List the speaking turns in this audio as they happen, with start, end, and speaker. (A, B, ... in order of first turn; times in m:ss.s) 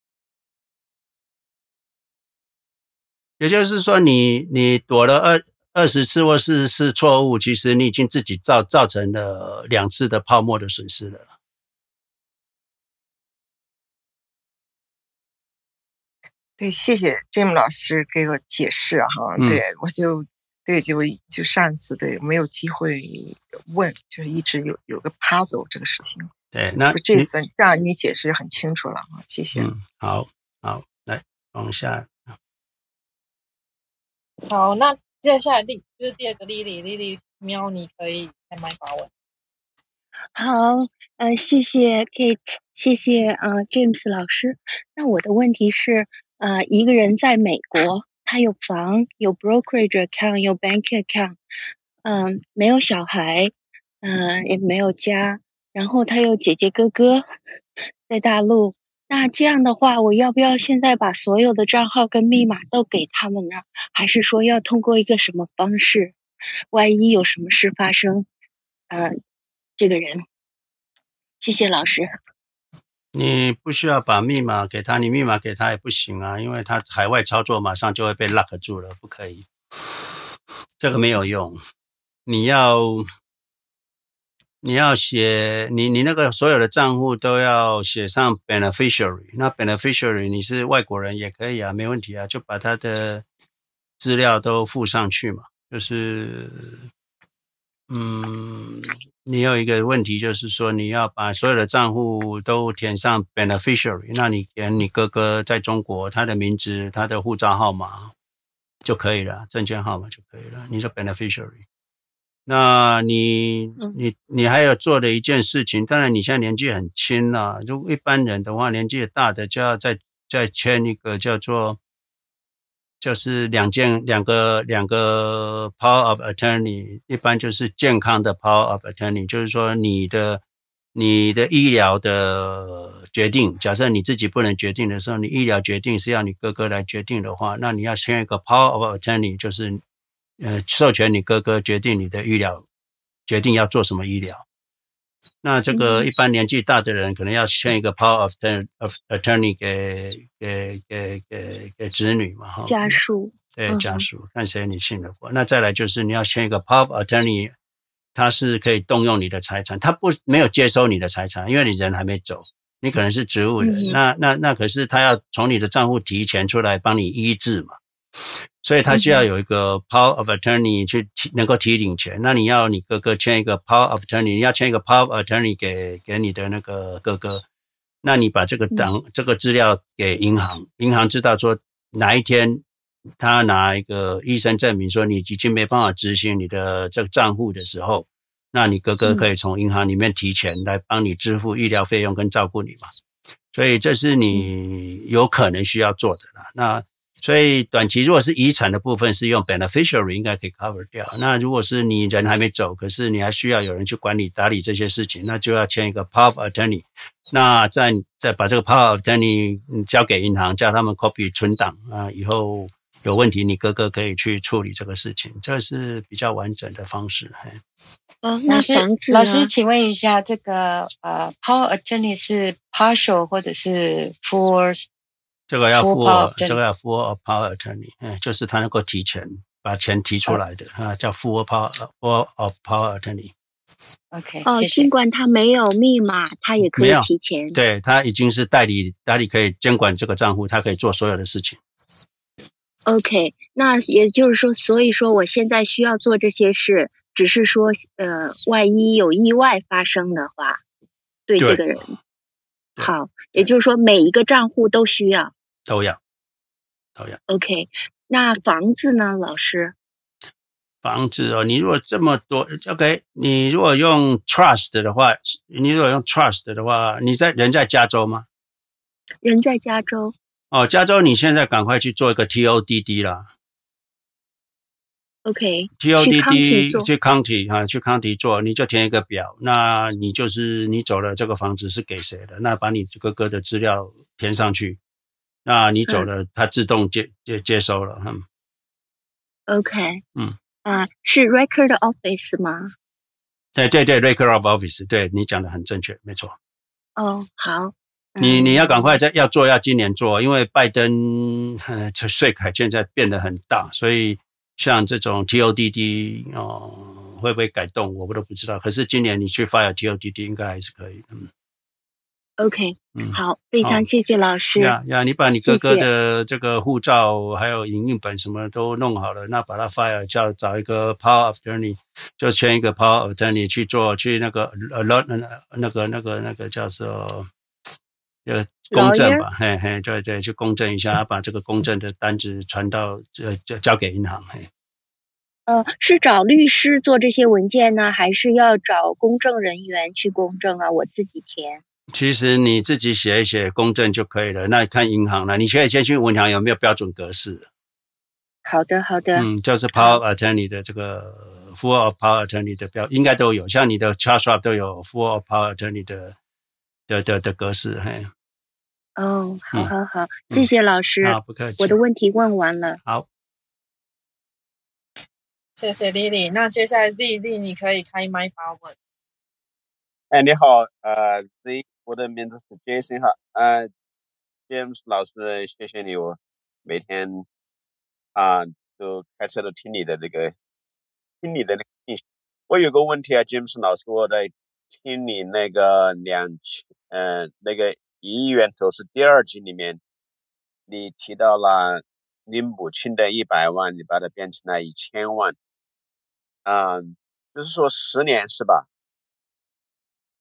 0:03.4-0:11.3 A
0:16.6-0:26.3 B
0:26.5-0:27.3 A
0:26.9-0:29.7 B
0:29.6-0:32.3 A
0:34.5-0:39.1 C
0:40.4-0:51.4 D
0:52.0-0:57.3 D
0:58.1-1:06.1 D
1:06.7-1:08.3 D
1:09.8-1:10.2 D
1:11.4-1:12.2 D
1:13.1-1:19.5 A
1:20.8-1:21.6 A
1:22.3-1:23.1 A
1:24.6-1:33.2 A
1:34.0-1:36.9 A
1:37.9-1:48.1 A
1:48.8-1:51.6 A
1:52.5-2:01.8 A
2:03.0-2:10.4 A
2:10.9-2:19.8 A
2:20.4-2:22.6 A
2:23.3-2:24.4 A
2:25.4-2:33.0 A
2:25.7-2:26.1 D
2:32.7-2:34.0 D
2:33.6-2:37.5 A
2:38.1-2:47.8 A
2:43.6-2:44.0 D
2:48.6-2:57.4 A
2:48.9-2:49.3 D
2:58.0-3:02.6 A
3:03.2-3:12.9 A
3:13.5-3:37.6 A
3:38.2-3:39.4 D
3:38.5-3:44.9 E
3:45.5-3:53.3 A
3:45.8-3:46.6 E
3:54.1-3:54.9 E
3:54.4-3:57.6 D
3:56.8-4:01.6 A
4:02.9-4:10.6 D
4:11.3-4:11.9 D
4:12.8-4:13.5 A
4:12.8-4:15.3 D
4:15.7-4:16.0 A
4:17.3-4:19.8 D
4:20.8-4:28.3 A
4:29.2-4:30.1 D
4:30.5-4:33.3 A
4:35.2-4:36.9 D
4:35.8-4:44.8 A
4:45.4-4:48.2 A
4:49.5-4:50.0 D
4:50.6-4:52.7 D
4:53.6-4:56.4 A
4:57.0-4:59.0 D
4:58.2-5:11.3 A
5:12.4-5:14.8 D
5:13.0-5:13.8 A
5:14.6-5:27.3 A
5:15.4-5:15.9 D
5:28.3-5:34.5 A
5:28.7-5:29.2 D
5:35.5-5:41.6 D
5:41.9-5:47.5 A
5:48.4-5:50.0 D
5:49.2-5:56.2 A
5:56.9-5:58.1 A
5:59.0-6:02.8 D
6:01.0-6:01.8 A
6:05.6-6:08.8 C
6:10.1-6:13.7 F
6:14.5-6:17.2 F
6:18.1-6:20.3 F
6:21.2-6:29.8 F
6:30.7-6:35.4 F
6:36.4-6:38.6 F